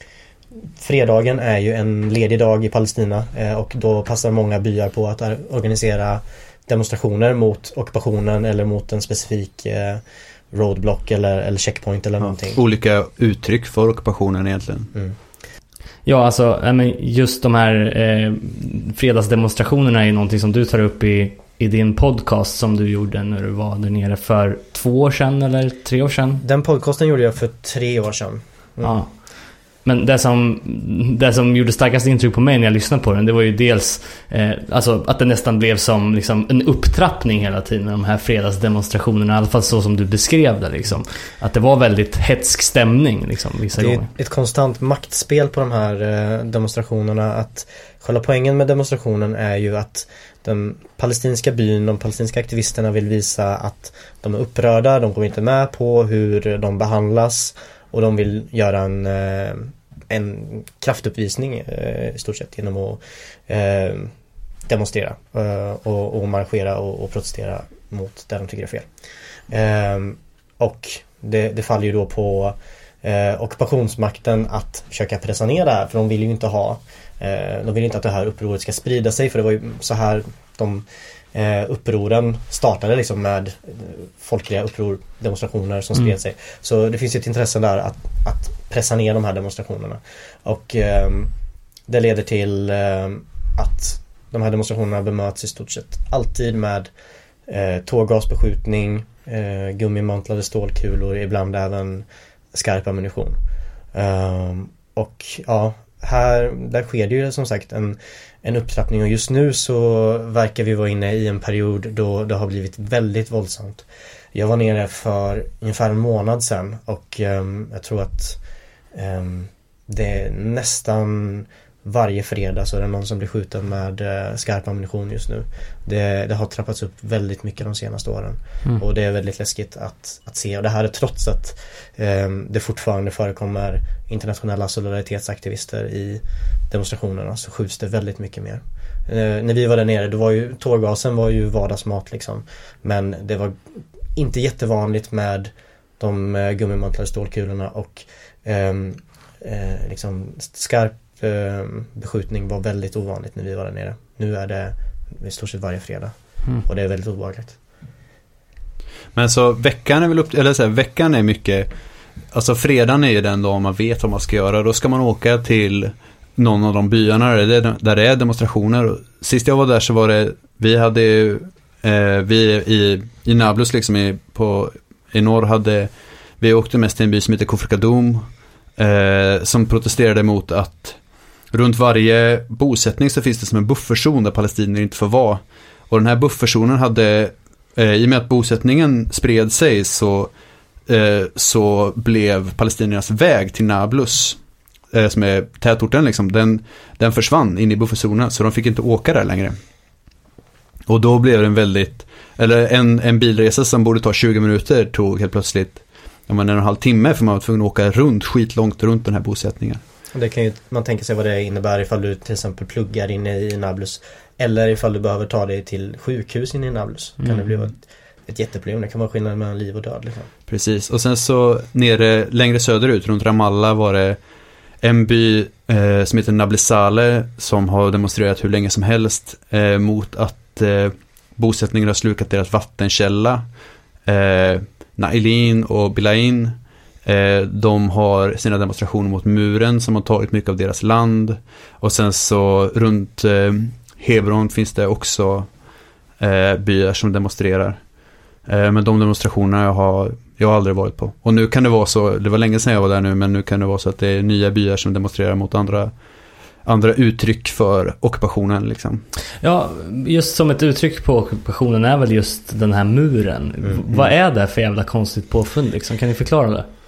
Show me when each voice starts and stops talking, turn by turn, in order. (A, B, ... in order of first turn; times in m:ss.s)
0:00.8-0:12.6 A
0:12.2-0:14.9 B
0:16.0-0:26.4 C
0:26.4-0:29.0 A
0:28.8-0:44.1 C
0:43.8-1:04.1 A
1:04.7-1:08.9 A
1:09.5-1:31.3 A
1:31.9-1:36.9 A
1:37.5-1:43.4 A
1:43.9-1:58.4 A
1:58.9-2:23.6 A
2:24.2-2:37.6 A
2:39.1-2:41.7 B
2:42.3-3:01.0 B
3:01.5-3:10.3 B
3:10.9-3:14.4 B
3:14.9-3:19.6 B
3:20.9-3:29.8 B
3:30.1-3:40.3 A
3:37.2-3:37.6 C
3:40.5-3:44.2 B
3:44.8-3:53.4 B
3:54.0-4:05.5 B
4:06.2-4:07.8 B
4:08.4-4:15.9 B
4:16.6-4:19.0 B
4:19.4-4:26.7 C